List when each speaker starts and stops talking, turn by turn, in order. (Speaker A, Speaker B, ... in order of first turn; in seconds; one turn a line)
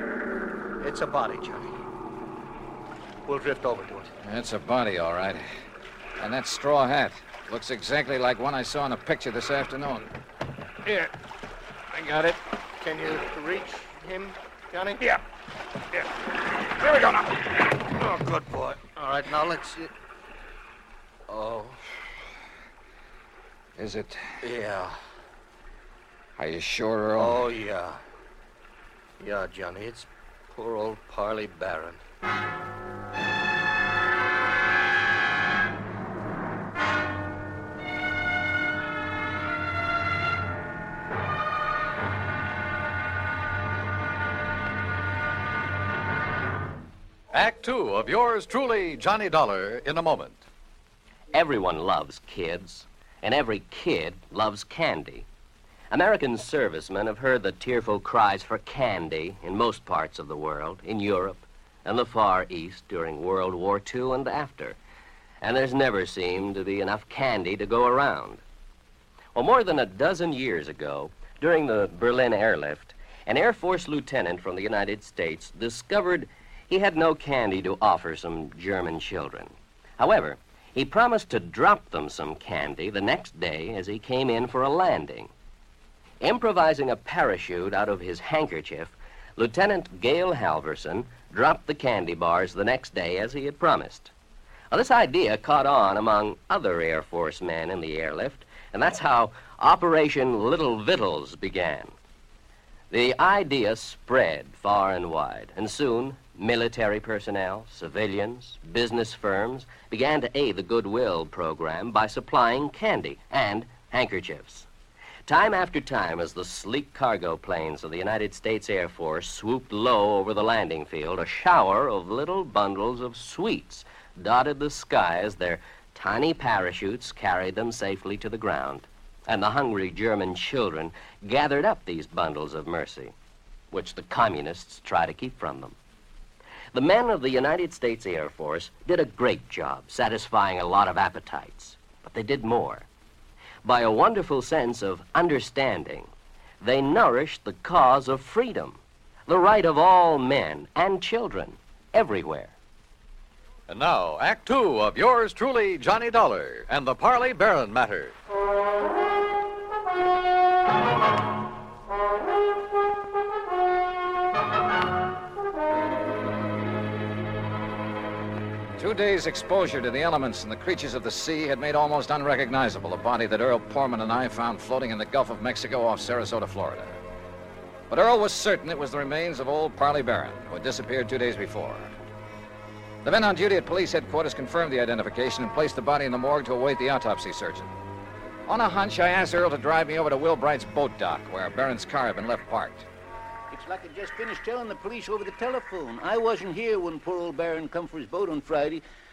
Speaker A: 0.8-1.7
Speaker A: 3.3-4.1
Speaker B: 4.2-5.4
Speaker B: 6.2-10.1
Speaker B: 11.9-12.4
Speaker A: 12.8-15.1
Speaker B: 16.8-17.4
Speaker A: 17.9-19.9
Speaker A: 21.3-21.8
Speaker B: 23.8-24.4
Speaker A: 24.4-25.0
Speaker B: 26.4-27.4
Speaker A: 27.2-28.0
Speaker A: 29.2-32.0
Speaker C: 47.3-50.4
Speaker D: 51.3-55.3
Speaker D: 55.9-64.8
Speaker D: 65.4-68.4
Speaker D: 69.3-85.3
Speaker D: 86.2-94.1
Speaker D: 94.7-101.9
Speaker D: 102.9-114.7
Speaker D: 115.3-133.1
Speaker D: 133.7-135.8
Speaker D: 136.7-142.9
Speaker D: 143.6-146.1
Speaker D: 146.6-152.5
Speaker C: 153.7-158.2
Speaker B: 168.8-177.0
Speaker B: 177.9-181.9
Speaker B: 183.0-187.7
Speaker B: 188.5-192.9
Speaker E: 193.5-198.8